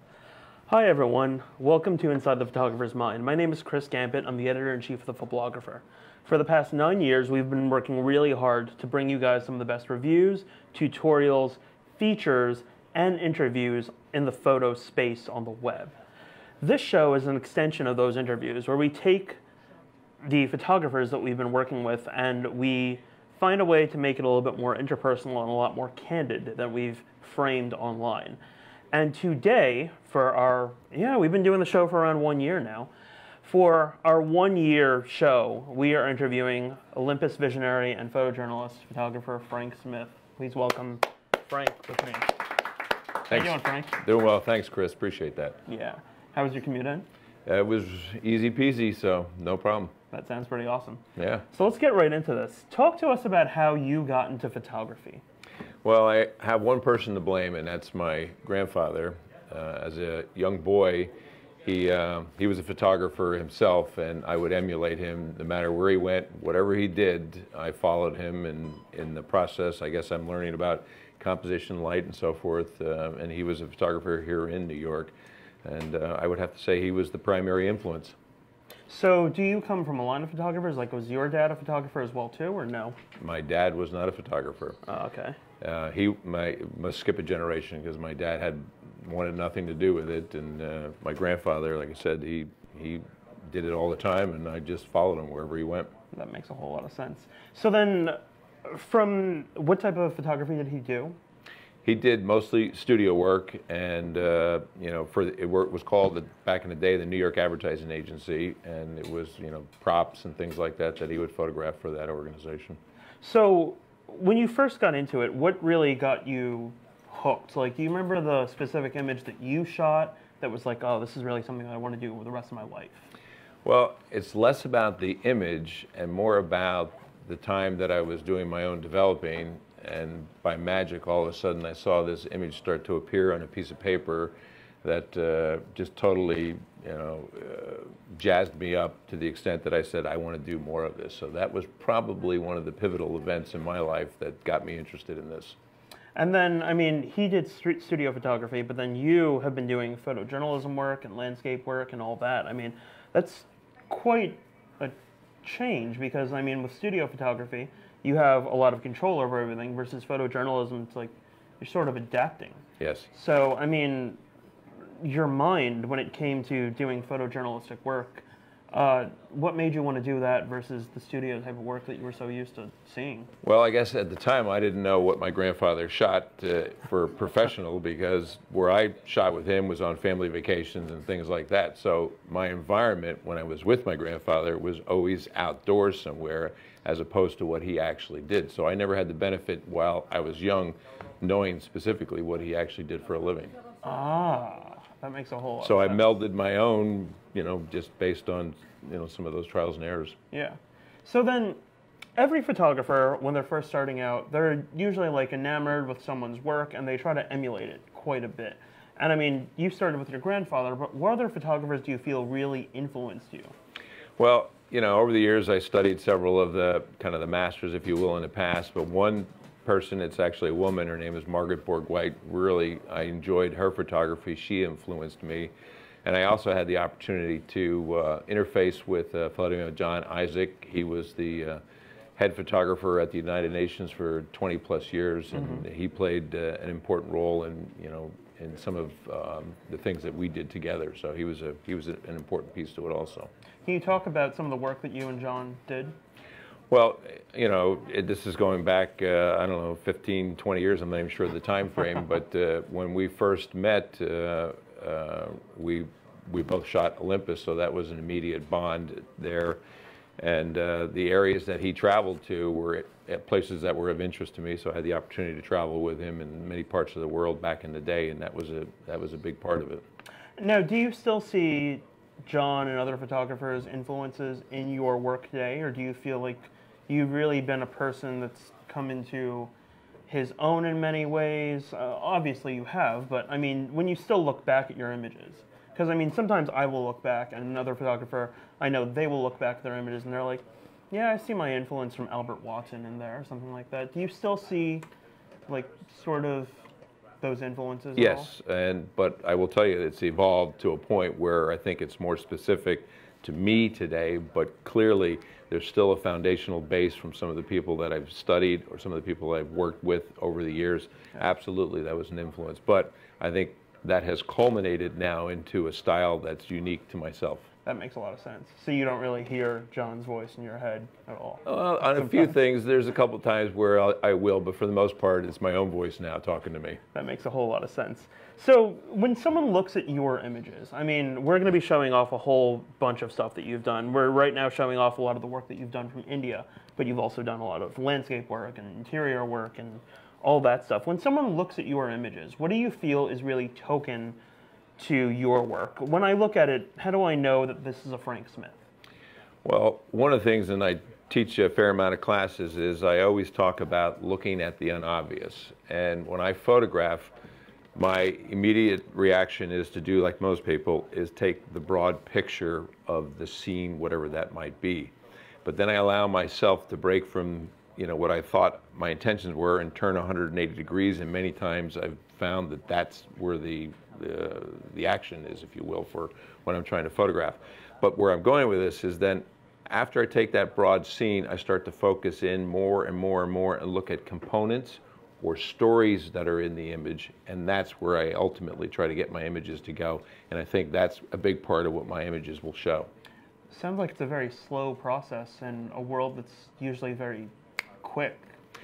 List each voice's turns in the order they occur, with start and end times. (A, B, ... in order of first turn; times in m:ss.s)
0:00.7-0:15.9 A
0:16.6-0:19.4 A
0:20.2-0:28.4 A
0:28.9-0:32.9 A
0:33.4-0:42.6 A
0:43.2-0:44.0 A
0:43.3-0:45.6 B
0:45.7-0:47.1 A
0:47.5-0:49.9 B
0:50.1-0:55.2 A
0:51.2-0:51.5 B
0:55.8-1:01.1 B
1:01.6-1:15.1 B
1:15.6-1:18.2 B
1:18.9-1:23.0 A
1:23.2-1:24.8 B
1:24.8-1:25.4 A
1:25.6-1:35.9 B
1:36.1-1:41.2 A
1:41.8-1:52.8 B
1:53.2-2:03.1 A
2:03.6-2:25.6 B
2:26.2-2:44.2 A
2:42.8-2:43.1 B
2:45.0-2:53.3 A
2:53.4-3:13.5 B
3:13.8-3:16.0 A
3:15.6-3:20.2 B
3:20.3-3:21.6 A
3:22.2-3:33.5 A
3:34.2-3:45.5 B
3:46.0-3:51.6 B
3:52.2-4:03.3 B
3:55.4-3:55.6 A
4:03.6-4:06.0 A
4:06.7-4:19.6 B
4:20.2-4:29.8 B
4:30.4-4:39.5 A
4:40.1-4:54.9 A
4:55.5-4:56.6 A
4:57.2-4:58.3 A
4:58.0-5:17.5 B
5:17.6-5:22.3 A
5:21.4-5:26.8 B
5:26.9-5:44.2 A
5:44.8-5:48.6 A
5:49.4-5:57.1 B
5:57.8-6:32.9 B
6:33.5-6:38.3 A